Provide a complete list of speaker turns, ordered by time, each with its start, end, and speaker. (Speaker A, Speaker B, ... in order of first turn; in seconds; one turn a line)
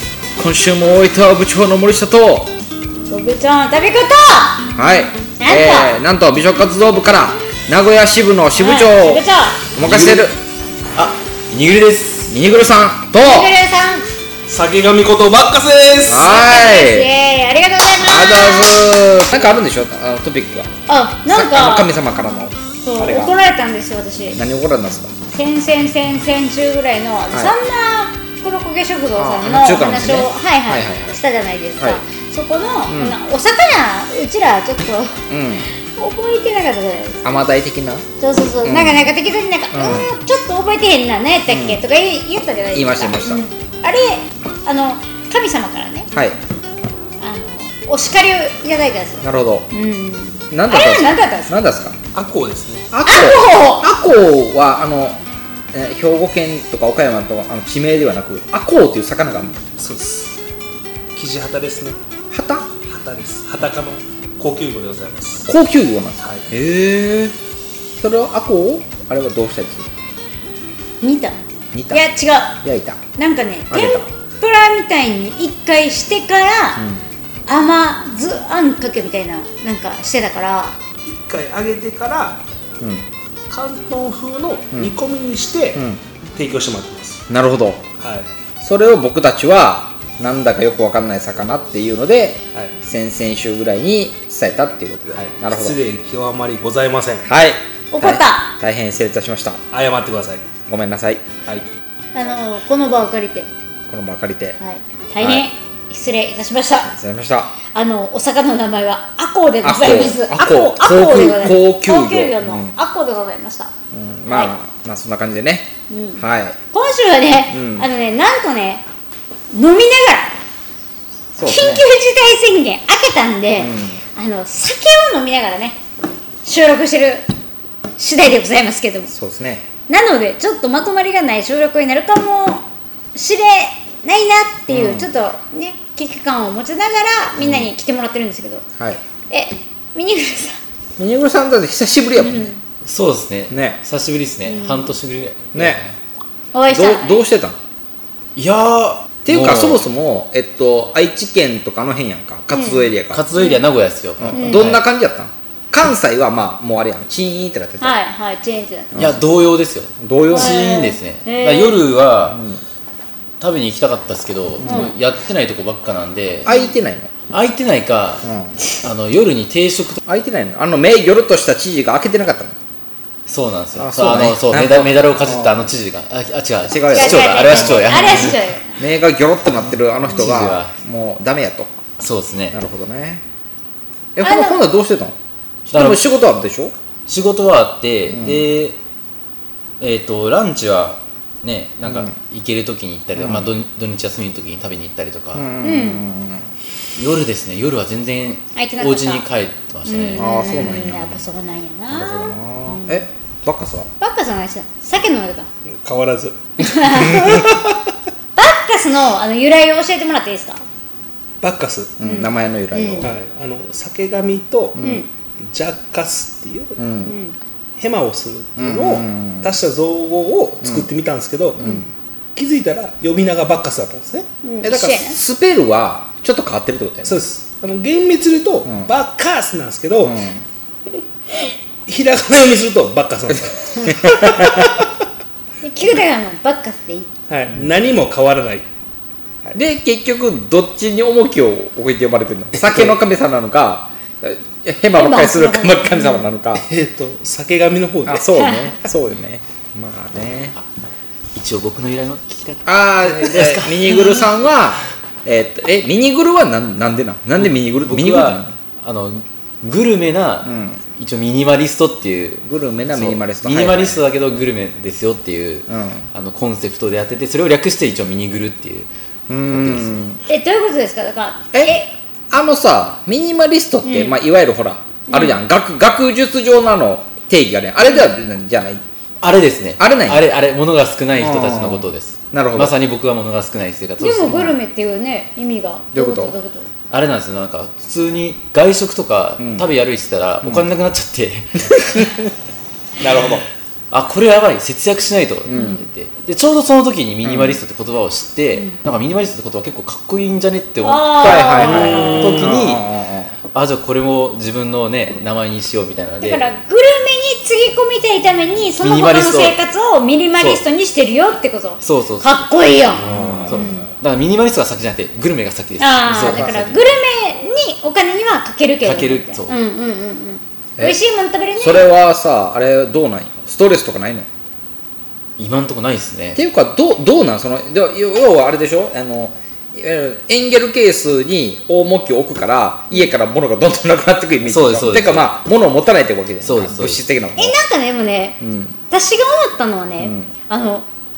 Speaker A: 0.4-2.5
Speaker B: 3.1-4.7
Speaker A: 4.8-9.2
Speaker B: 5.4-5.9
Speaker B: 8.6-9.6
Speaker A: 9.7-10.3
Speaker C: 9.8-10.3
Speaker C: 10.9-12.4
Speaker A: 12.3-13.5
Speaker B: 13.2-14.1
Speaker D: 14.5-16.3
Speaker A: 16.1-17.1
Speaker B: 16.2-18.8
Speaker A: 18.0-20.7
Speaker B: 20.9-21.9
Speaker A: 21.3-23.3
Speaker B: 22.8-24.4
Speaker A: 24.3-25.1
Speaker B: 25.3-35.2
Speaker A: 29.1-31.2
Speaker A: 32.9-33.2
Speaker A: 35.3-35.7
Speaker B: 36.0-37.2
Speaker A: 37.2-38.0
Speaker B: 38.2-46.1
Speaker A: 38.6-39.1
Speaker A: 39.7-40.1
Speaker A: 41.5-41.8
Speaker A: 42.7-43.4
Speaker A: 46.1-46.4
Speaker B: 47.2-51.6
Speaker A: 49.2-49.7
Speaker A: 50.5-52.0
Speaker D: 52.1-52.9
Speaker A: 52.9-55.2
Speaker B: 53.1-53.9
Speaker A: 55.7-59.6
Speaker D: 59.7-60.4
Speaker D: 61.1-62.0
Speaker A: 62.3-62.7
Speaker D: 62.8-65.5
Speaker A: 65.5-67.3
Speaker D: 66.2-66.5
Speaker A: 68.0-69.8
Speaker B: 71.0-71.4
Speaker A: 71.7-72.0
Speaker B: 71.9-72.6
Speaker A: 72.6-73.0
Speaker B: 73.2-76.8
Speaker A: 73.7-74.1
Speaker A: 76.8-77.0
Speaker B: 77.5-80.8
Speaker D: 81.0-82.4
Speaker A: 82.8-83.1
Speaker D: 83.5-85.8
Speaker A: 85.7-86.0
Speaker D: 86.3-87.2
Speaker A: 87.3-87.8
Speaker D: 88.0-88.3
Speaker A: 88.6-95.8
Speaker D: 95.1-97.3
Speaker A: 97.2-99.6
Speaker B: 97.9-98.5
Speaker D: 99.7-100.5
Speaker A: 100.7-101.2
Speaker B: 102.1-103.5
Speaker A: 103.9-104.6
Speaker B: 104.6-106.9
Speaker A: 105.2-105.5
Speaker A: 106.9-107.5
Speaker B: 107.7-113.7
Speaker A: 109.6-112.8
Speaker A: 113.9-116.6
Speaker B: 115.9-118.8
Speaker A: 117.5-117.9
Speaker B: 119.5-120.3
Speaker A: 121.3-121.8
Speaker B: 121.4-125.8
Speaker A: 123.6-124.0
Speaker B: 126.4-127.2
Speaker B: 128.0-129.1
Speaker A: 129.1-129.7
Speaker B: 129.9-132.6
Speaker B: 133.1-138.6
Speaker A: 134.7-135.1
Speaker A: 137.4-137.7
Speaker B: 139.3-140.6
Speaker A: 141.0-142.5
Speaker B: 142.2-142.6
Speaker C: 142.8-145.9
Speaker A: 143.5-143.8
Speaker B: 144.5-144.9
Speaker A: 145.5-145.8
Speaker B: 146.5-147.2
Speaker A: 146.7-147.6
Speaker C: 148.3-149.8
Speaker A: 149.2-153.2
Speaker B: 152.5-153.6
Speaker C: 153.1-154.8
Speaker A: 154.2-158.0
Speaker B: 157.8-159.0
Speaker A: 158.9-159.2
Speaker C: 158.9-162.4
Speaker A: 160.0-160.7
Speaker B: 160.3-161.8
Speaker A: 162.3-162.6
Speaker C: 163.4-166.5
Speaker A: 164.6-164.9
Speaker B: 164.7-164.9
Speaker A: 166.4-167.1
Speaker C: 167.3-168.2
Speaker A: 168.2-168.6
Speaker C: 168.8-170.0
Speaker A: 170.0-172.6
Speaker C: 173.3-178.4
Speaker A: 173.8-175.7
Speaker A: 176.7-181.7
Speaker B: 176.9-178.8
Speaker C: 180.0-180.8
Speaker C: 182.0-182.6
Speaker A: 182.5-183.2
Speaker A: 184.2-185.1
Speaker B: 184.2-184.6
Speaker C: 185.7-186.0
Speaker A: 185.7-186.7
Speaker C: 187.1-188.8
Speaker A: 188.1-188.5
Speaker C: 189.8-195.5
Speaker A: 191.8-192.1
Speaker A: 193.2-193.5
Speaker A: 195.3-196.5
Speaker B: 195.6-196.0
Speaker C: 196.9-200.3
Speaker B: 198.5-199.2
Speaker B: 199.8-203.0
Speaker A: 200.2-201.2
Speaker A: 201.9-203.9
Speaker B: 204.0-205.5
Speaker D: 205.8-207.6
Speaker B: 206.6-207.4
Speaker B: 208.3-210.6
Speaker D: 211.4-211.9
Speaker A: 212.0-213.1
Speaker B: 212.0-213.1
Speaker D: 213.0-214.8
Speaker A: 214.8-215.0
Speaker B: 214.8-215.1
Speaker D: 215.4-216.8
Speaker A: 216.8-217.1
Speaker B: 217.0-217.4
Speaker D: 217.8-221.6
Speaker A: 218.6-219.5
Speaker A: 221.6-221.9
Speaker B: 221.6-221.8
Speaker D: 222.3-224.2
Speaker B: 224.4-225.2
Speaker A: 224.6-227.2
Speaker D: 227.0-230.2
Speaker A: 228.7-228.9
Speaker A: 230.0-230.4
Speaker D: 231.8-234.6
Speaker A: 233.3-234.7
Speaker B: 235.6-237.1
Speaker D: 237.3-238.6
Speaker A: 239.5-246.7
Speaker D: 242.6-242.9
Speaker B: 244.9-246.2
Speaker D: 246.6-248.3
Speaker A: 248.1-250.6
Speaker C: 251.3-254.3
Speaker A: 252.6-258.5
Speaker C: 257.4-268.9
Speaker A: 260.4-260.8
Speaker A: 262.4-264.0
Speaker A: 265.7-266.0
Speaker A: 269.3-270.2
Speaker C: 269.5-270.0
Speaker B: 270.3-271.9
Speaker A: 271.5-278.8
Speaker B: 273.8-274.2
Speaker B: 275.1-275.4
Speaker C: 279.2-284.6
Speaker A: 279.8-280.3
Speaker A: 281.1-282.7
Speaker B: 284.0-286.7
Speaker A: 285.9-286.4
Speaker C: 286.9-292.2
Speaker A: 289.4-289.6
Speaker A: 293.0-293.4
Speaker C: 293.9-302.9
Speaker A: 295.4-295.8
Speaker B: 295.5-295.8
Speaker A: 297.2-297.6
Speaker B: 300.8-302.5
Speaker A: 301.2-303.4
Speaker C: 303.5-306.4
Speaker B: 306.2-313.8
Speaker C: 308.8-309.6
Speaker C: 310.4-310.6
Speaker C: 311.8-312.4
Speaker D: 313.0-313.6
Speaker A: 313.1-313.9
Speaker C: 313.4-316.9
Speaker B: 315.8-321.9
Speaker A: 316.1-316.5
Speaker C: 318.8-319.5
Speaker A: 321.6-324.3
Speaker C: 325.4-326.4
Speaker A: 326.4-337.6
Speaker C: 334.4-335.3
Speaker C: 336.4-337.0
Speaker B: 337.4-338.4
Speaker A: 338.4-338.8
Speaker B: 338.9-340.9
Speaker A: 340.0-340.3